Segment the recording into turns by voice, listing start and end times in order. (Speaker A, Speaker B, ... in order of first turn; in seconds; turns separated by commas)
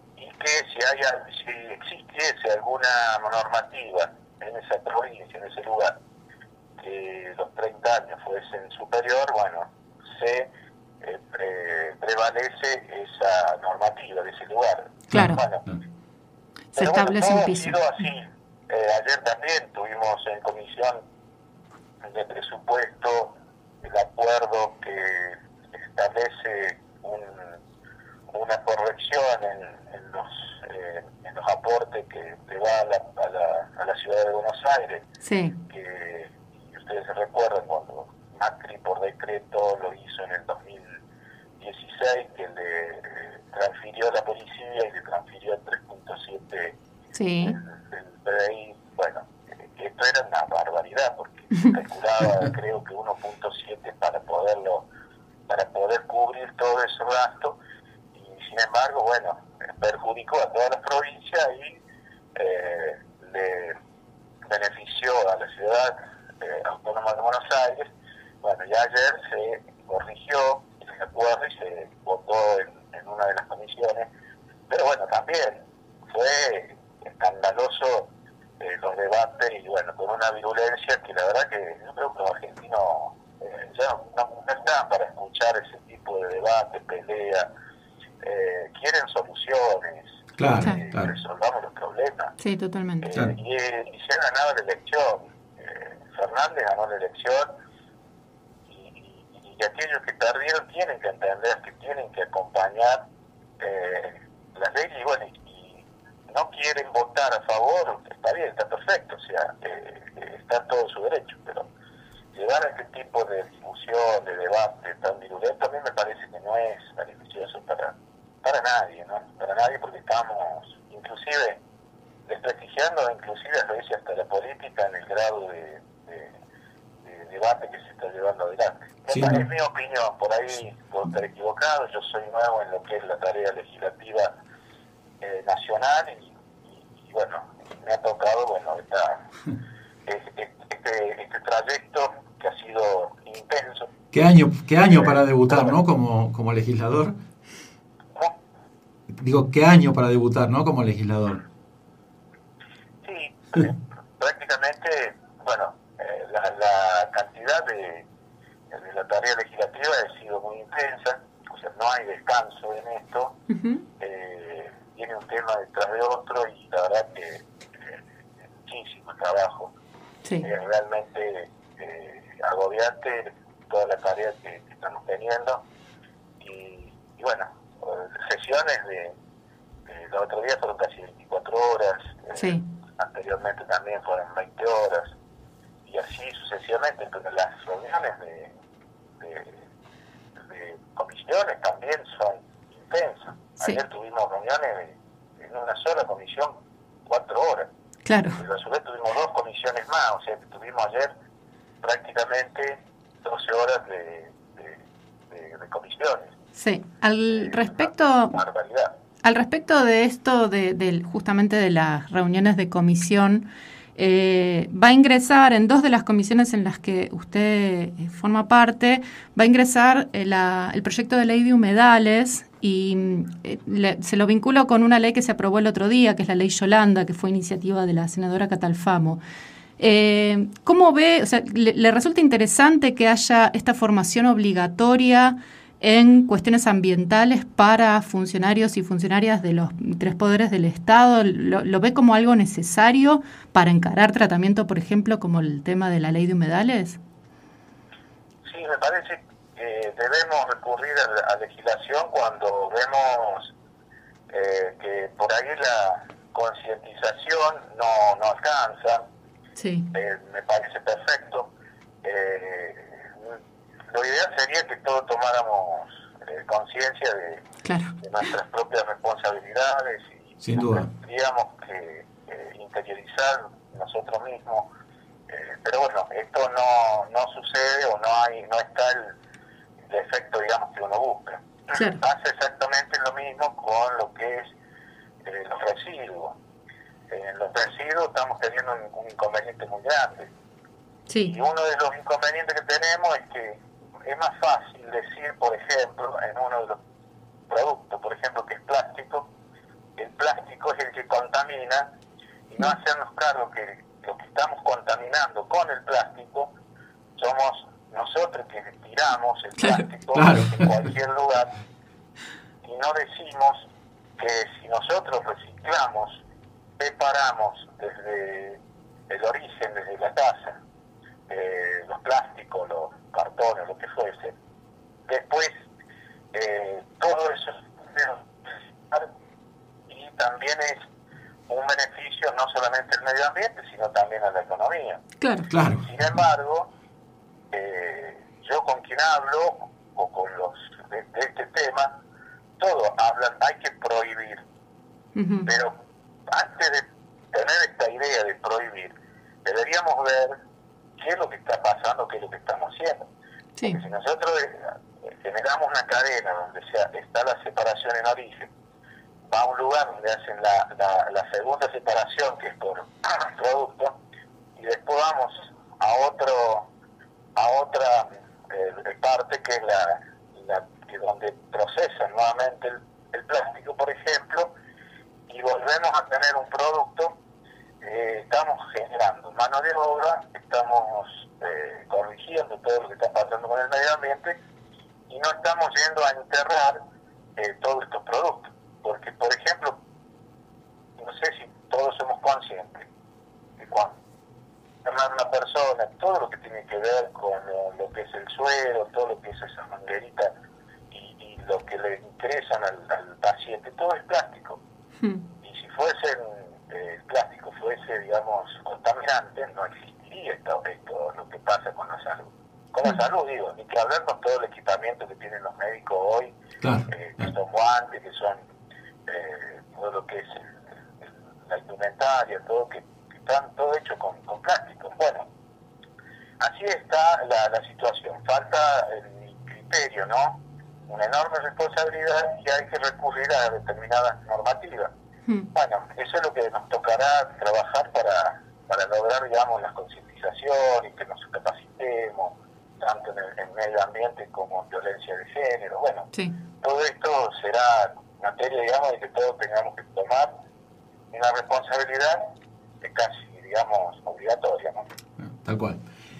Speaker A: 0.2-6.0, Speaker A: 6.8-10.5, Speaker A: 11.0-15.7, Speaker B: 15.1-15.8, Speaker C: 15.1-15.4, Speaker C: 16.7-17.8, Speaker A: 16.8-21.0, Speaker A: 22.0-27.6, Speaker A: 28.3-35.1, Speaker C: 35.2-35.6, Speaker A: 35.7-41.0, Speaker A: 41.6-46.8, Speaker C: 47.1-47.6, Speaker A: 47.4-54.9, Speaker A: 55.5-57.6, Speaker A: 58.1-61.8, Speaker A: 62.4-63.8, Speaker A: 64.5-74.1, Speaker A: 74.7-87.5, Speaker A: 88.2-92.3, Speaker B: 90.4-91.1, Speaker C: 92.4-93.1, Speaker A: 93.0-97.5, Speaker A: 98.7-103.1, Speaker A: 103.6-111.7, Speaker A: 112.3-121.6, Speaker A: 122.3-126.3, Speaker A: 127.0-134.3, Speaker B: 129.1-129.4, Speaker A: 135.2-139.2, Speaker A: 140.1-143.9, Speaker B: 144.1-147.2, Speaker A: 144.9-145.8, Speaker B: 149.1-151.4, Speaker A: 153.0-158.1, Speaker A: 158.7-163.4, Speaker C: 163.5-163.8, Speaker A: 164.0-168.0, Speaker A: 168.6-169.7, Speaker A: 170.4-175.7, Speaker A: 176.4-179.2, Speaker A: 179.9-185.2, Speaker C: 182.4-182.6, Speaker A: 185.8-188.5, Speaker A: 189.2-189.6, Speaker A: 190.5-196.5, Speaker A: 197.1-197.7, Speaker C: 198.1-198.4, Speaker A: 198.4-201.1, Speaker A: 201.8-206.3, Speaker C: 206.6-208.3, Speaker A: 207.3-208.9, Speaker C: 209.2-229.2, Speaker C: 229.8-247.0, Speaker A: 248.5-253.5, Speaker A: 254.3-259.1, Speaker C: 259.6-259.9, Speaker A: 259.9-261.5, Speaker A: 262.0-263.4, Speaker A: 263.9-267.5, Speaker C: 267.6-267.9, Speaker A: 268.0-274.7, Speaker B: 270.4-270.9, Speaker A: 275.3-279.1, Speaker A: 279.9-284.5, Speaker A: 285.2-286.4, Speaker A: 287.1-290.3, Speaker C: 291.1-291.3, Speaker A: 291.2-296.8, Speaker A: 297.5-299.3, Speaker A: 300.0-301.9, Speaker A: 302.5-306.5, Speaker A: 307.2-311.5, Speaker B: 310.1-310.7, Speaker A: 312.6-313.7, Speaker A: 314.2-316.2, Speaker A: 316.8-320.6, Speaker A: 321.3-324.4, Speaker A: 325.1-325.6, Speaker A: 326.3-328.3, Speaker A: 329.9-330.9, Speaker A: 331.5-335.0, Speaker C: 335.2-335.5, Speaker B: 335.5-335.9, Speaker A: 335.8-336.7, Speaker A: 337.5-341.9, Speaker A: 342.6-344.4, Speaker C: 345.2-345.5, Speaker A: 345.5-345.7, Speaker A: 346.3-348.9, Speaker A: 349.4-350.4, Speaker A: 351.0-353.0, Speaker A: 353.6-358.5, Speaker A: 359.3-363.9, Speaker A: 364.6-366.7, Speaker A: 367.4-374.5, Speaker A: 375.3-377.2, Speaker A: 377.8-384.4, Speaker A: 385.1-386.8, Speaker A: 387.4-389.8, Speaker A: 391.0-392.9, Speaker A: 393.6-393.9, Speaker A: 394.8-400.3, Speaker A: 400.9-404.6, Speaker A: 405.4-416.3, Speaker B: 416.6-417.3, Speaker A: 416.9-418.4, Speaker A: 419.1-425.3, Speaker A: 426.4-434.9, Speaker A: 435.5-446.1, Speaker A: 446.6-450.3, Speaker A: 451.1-452.3, Speaker A: 452.8-454.9, Speaker B: 455.2-455.8